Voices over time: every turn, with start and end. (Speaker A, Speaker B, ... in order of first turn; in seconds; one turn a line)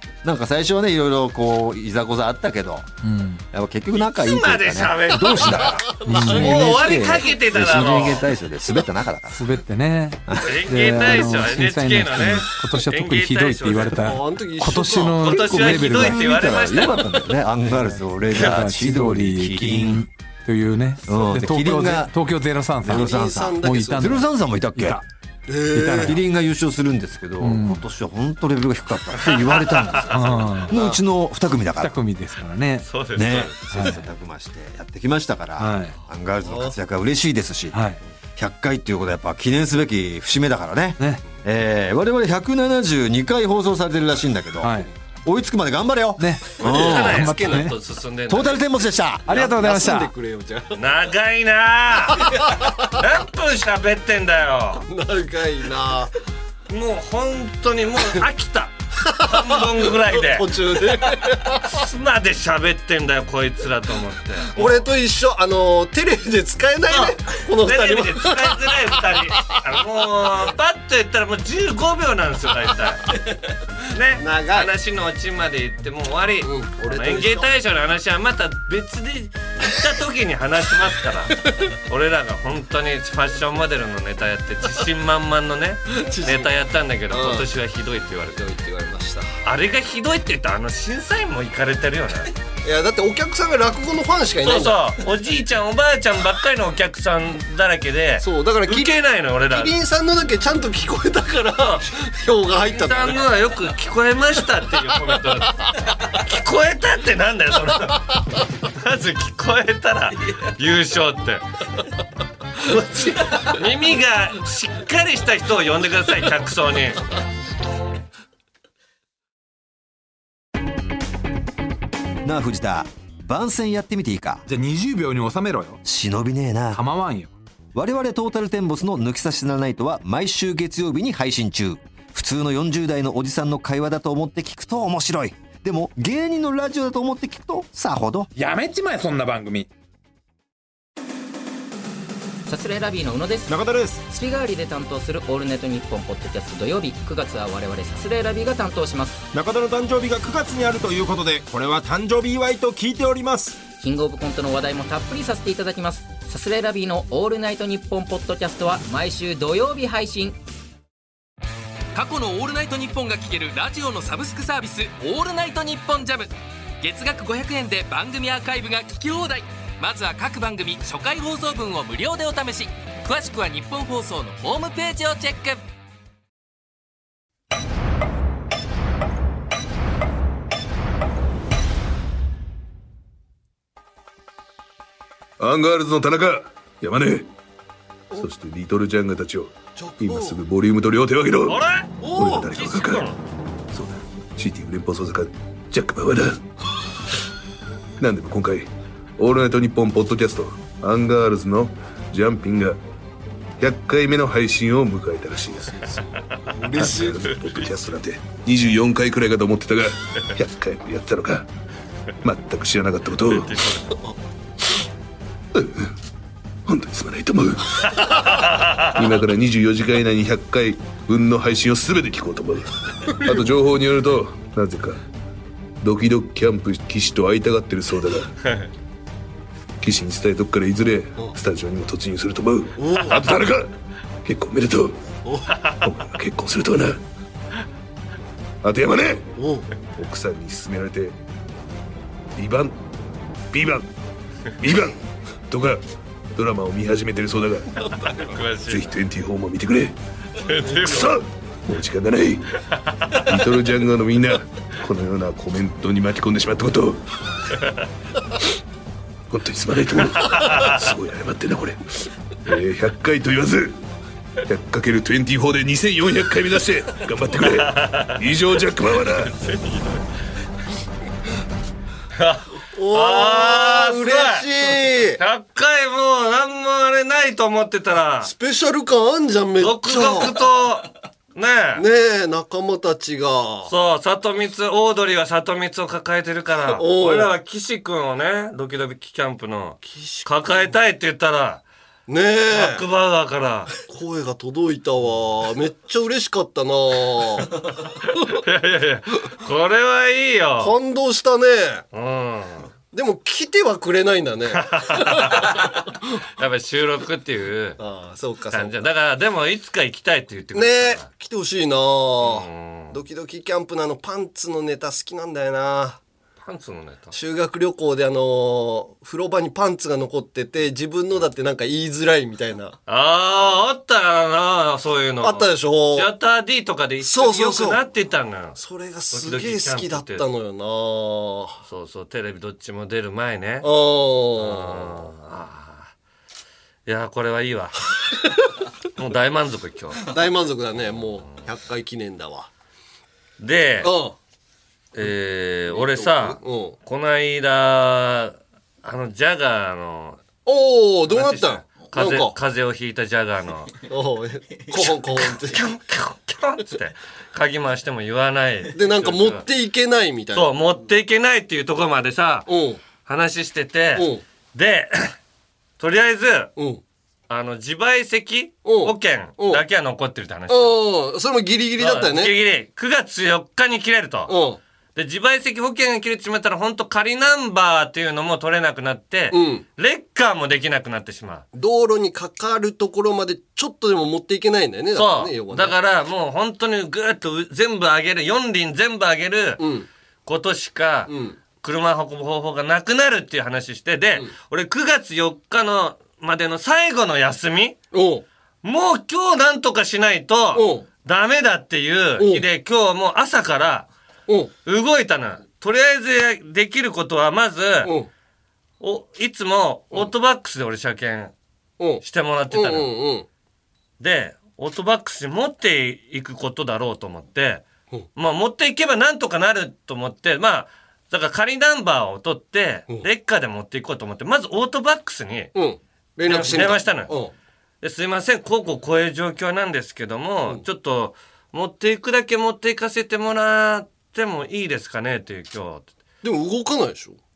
Speaker A: 0.2-2.9
Speaker B: 3.0-3.4
Speaker A: 3.5-9.4
Speaker C: 3.9-8.2
Speaker D: 5.9-7.1
Speaker B: 6.1-6.7
Speaker B: 9.3-16.6
Speaker C: 10.4-14.1
Speaker D: 14.0-15.4
Speaker C: 15.2-17.0
Speaker A: 15.3-20.1
Speaker B: 17.8-25.0
Speaker A: 21.1-22.1
Speaker A: 22.8-25.0
Speaker D: 22.9-24.2
Speaker D: 25.5-26.2
Speaker B: 25.8-26.2
Speaker A: 25.8-32.5
Speaker B: 27.4-27.8
Speaker C: 29.2-30.9
Speaker B: 30.1-30.7
Speaker B: 31.8-33.0
Speaker C: 32.8-33.9
Speaker A: 33.1-37.8
Speaker B: 33.7-34.0
Speaker B: 35.6-36.0
Speaker D: 36.4-36.8
Speaker B: 37.7-38.0
Speaker A: 38.4-47.4
Speaker B: 41.0-41.3
Speaker B: 44.6-44.9
Speaker B: 46.2-47.7
Speaker C: 46.6-48.6
Speaker D: 46.8-47.7
Speaker A: 48.3-49.7
Speaker B: 49.3-50.1
Speaker D: 49.3-50.8
Speaker C: 50.8-54.8
Speaker D: 52.2-52.7
Speaker D: 54.9-56.1
Speaker C: 56.7-60.5
Speaker D: 59.0-61.7
Speaker C: 61.6-64.9
Speaker D: 64.5-69.1
Speaker C: 66.9-73.2
Speaker C: 73.9-88.4
Speaker D: 74.2-74.7
Speaker D: 76.4-77.5
Speaker D: 85.9-86.5
Speaker D: 87.1-87.5
Speaker D: 88.3-89.3
Speaker C: 89.5-92.3
Speaker D: 92.6-94.8
Speaker C: 94.4-99.8
Speaker D: 98.2-99.0
Speaker D: 99.5-103.2
Speaker C: 102.7-108.1
Speaker C: 108.7-111.4
Speaker C: 112.6-117.0
Speaker A: 122.2-124.5
Speaker B: 124.5-125.8
Speaker A: 125.8-126.8
Speaker B: 126.7-127.3
Speaker A: 127.7-138.3
Speaker B: 138.4-139.7
Speaker E: 142.5-149.2
Speaker F: 143.5-144.1
Speaker F: 149.3-153.6
Speaker E: 153.8-160.4
Speaker G: 161.9-175.6
Speaker H: 185.4-187.3
Speaker H: 188.2-193.1
Speaker D: 189.8-190.4
Speaker C: 191.5-193.2
Speaker D: 192.0-192.5
Speaker H: 193.7-196.4
Speaker H: 198.0-202.8
Speaker H: 203.6-205.7
Speaker D: 205.6-207.3
Speaker C: 206.2-207.7
Speaker H: 206.7-211.5
Speaker H: 212.2-213.7
Speaker C: 213.3-213.9
Speaker D: 213.9-214.2
Speaker H: 215.6-215.9
Speaker H: 216.7-218.2
Speaker C: 217.8-219.0
Speaker H: 218.9-225.0
Speaker H: 225.8-228.3
Speaker C: 228.4-228.7
Speaker H: 229.8-233.7
Speaker D: 232.8-233.2
Speaker C: 233.1-233.5
Speaker H: 234.2-235.0
Speaker C: 235.5-235.9
Speaker H: 235.8-237.0
Speaker H: 238.6-239.3
Speaker D: 239.4-239.7
Speaker H: 239.9-241.2
Speaker H: 242.3-242.8
Speaker H: 243.5-243.9
Speaker H: 244.6-245.8
Speaker H: 246.4-247.9
Speaker C: 248.1-248.9
Speaker H: 248.7-250.0
Speaker C: 250.4-251.2
Speaker H: 250.7-252.4
Speaker C: 252.7-253.3
Speaker H: 253.2-257.0
Speaker H: 259.3-263.8
Speaker C: 260.2-260.8
Speaker H: 264.5-269.3
Speaker C: 267.4-268.2
Speaker C: 269.0-270.0
Speaker C: 272.2-274.5
Speaker D: 272.7-275.2
Speaker C: 275.2-278.3
Speaker D: 278.2-280.4
Speaker C: 279.6-281.9
Speaker D: 281.8-283.7
Speaker C: 283.7-291.6
Speaker D: 286.7-287.3
Speaker D: 289.9-290.3
Speaker D: 292.1-292.8
Speaker C: 292.5-293.7
Speaker D: 293.9-297.6
Speaker C: 298.1-300.7
Speaker D: 300.6-301.8
Speaker C: 301.9-302.7
Speaker D: 302.9-305.6
Speaker C: 304.5-305.8
Speaker C: 306.4-307.8
Speaker D: 307.8-308.9
Speaker C: 308.5-311.1
Speaker D: 310.5-316.0
Speaker C: 312.2-313.0
Speaker C: 316.4-317.1
Speaker D: 317.1-322.8
Speaker C: 322.9-328.6
Speaker D: 325.2-326.1
Speaker D: 327.0-327.8
Speaker D: 328.6-331.6
Speaker C: 329.1-330.2
Speaker C: 331.7-333.7
Speaker D: 333.6-335.0
Speaker C: 334.4-335.9
Speaker C: 336.9-337.8
Speaker C: 339.0-340.1
Speaker D: 340.1-342.5
Speaker C: 343.4-343.9
Speaker D: 343.8-344.2
Speaker C: 344.9-350.2
Speaker D: 345.7-346.8
Speaker D: 350.5-352.4
Speaker C: 351.1-353.7
Speaker D: 353.9-355.6
Speaker C: 354.8-359.5
Speaker D: 358.7-360.5
Speaker C: 360.3-362.5
Speaker D: 362.5-362.8
Speaker C: 363.0-365.2
Speaker D: 364.0-364.2
Speaker C: 365.8-366.5
Speaker D: 366.6-366.8
Speaker C: 367.3-370.8
Speaker D: 368.6-369.6
Speaker D: 370.5-372.4
Speaker C: 371.8-374.3
Speaker D: 374.3-374.6
Speaker C: 374.9-381.5
Speaker D: 379.3-379.6
Speaker D: 381.5-385.8
Speaker C: 384.9-389.6
Speaker D: 389.6-389.9
Speaker C: 390.3-397.8
Speaker D: 391.1-391.4
Speaker D: 397.9-398.2
Speaker C: 398.6-403.9
Speaker D: 400.6-400.9
Speaker D: 402.2-402.4
Speaker D: 404.3-404.5
Speaker C: 404.6-407.9
Speaker D: 407.8-408.1
Speaker C: 408.8-411.3
Speaker D: 411.8-413.3
Speaker C: 412.0-412.9
Speaker C: 414.0-425.5
Speaker D: 425.6-427.3
Speaker C: 426.2-427.1
Speaker C: 427.8-435.9
Speaker D: 436.2-437.2